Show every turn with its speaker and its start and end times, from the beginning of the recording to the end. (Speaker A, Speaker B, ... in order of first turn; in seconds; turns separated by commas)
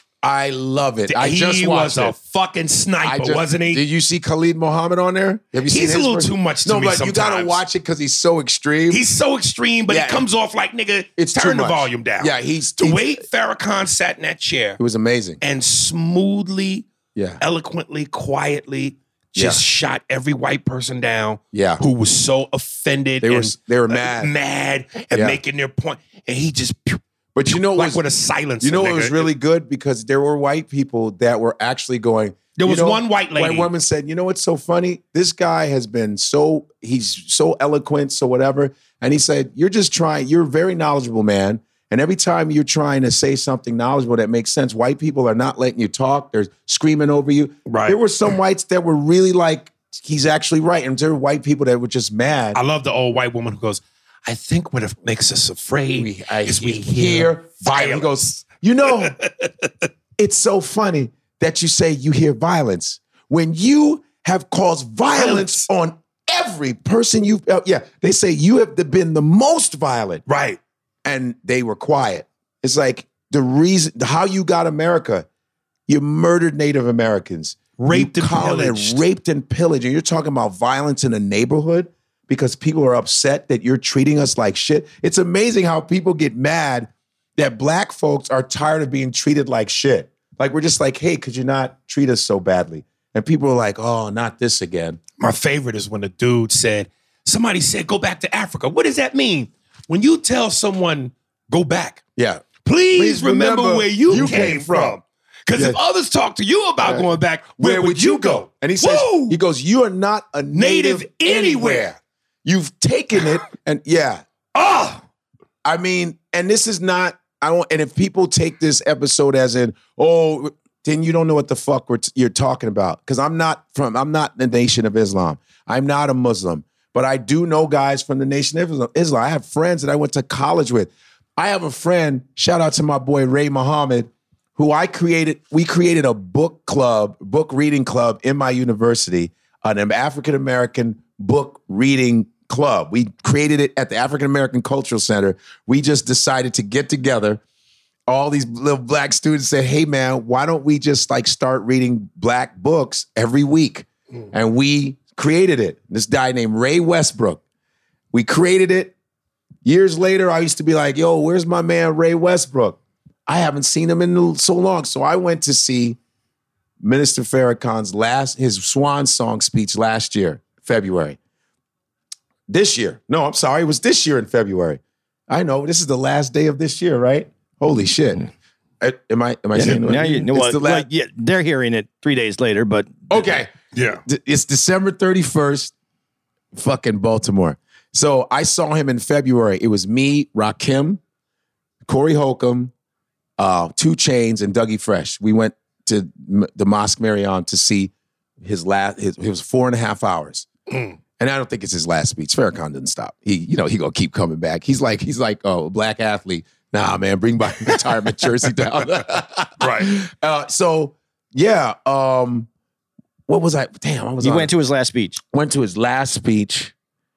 Speaker A: 0.2-2.1, Speaker B: 1.1-3.8, Speaker A: 3.0-9.0, Speaker B: 5.7-7.6, Speaker B: 8.9-14.8, Speaker A: 9.9-10.3, Speaker A: 11.2-13.2, Speaker A: 14.8-15.4, Speaker B: 15.4-16.9, Speaker A: 17.1-17.4, Speaker B: 17.4-29.3, Speaker A: 19.4-19.6, Speaker A: 21.5-21.8, Speaker A: 23.2-24.3, Speaker A: 25.1-25.4, Speaker A: 27.3-28.0, Speaker A: 28.6-52.6, Speaker B: 32.6-33.7, Speaker B: 47.7-48.0, Speaker B: 52.5-58.1, Speaker A: 55.9-59.1, Speaker B: 59.0-59.5, Speaker A: 60.2-70.2, Speaker B: 65.1-65.7, Speaker B: 70.3-70.6, Speaker A: 71.0-75.3, Speaker A: 75.9-95.0, Speaker B: 77.8-79.0, Speaker B: 95.2-102.0, Speaker A: 102.2-105.0, Speaker B: 102.6-109.4, Speaker A: 106.8-114.2, Speaker B: 110.5-111.9, Speaker B: 114.5-115.0, Speaker A: 115.6-147.4, Speaker A: 148.1-157.4, Speaker A: 158.1-158.9, Speaker A: 159.6-166.0, Speaker A: 166.8-171.2, Speaker A: 172.5-178.2, Speaker A: 178.8-180.9, Speaker C: 179.5-183.2, Speaker A: 183.1-183.5, Speaker B: 183.7-184.0, Speaker A: 184.0-185.7, Speaker A: 186.5-191.0, Speaker A: 191.8-192.7, Speaker A: 193.4-200.5, Speaker B: 200.7-200.9, Speaker A: 201.2-212.5, Speaker B: 209.6-209.9, Speaker A: 213.3-214.5, Speaker C: 214.2-215.2, Speaker A: 215.3-216.7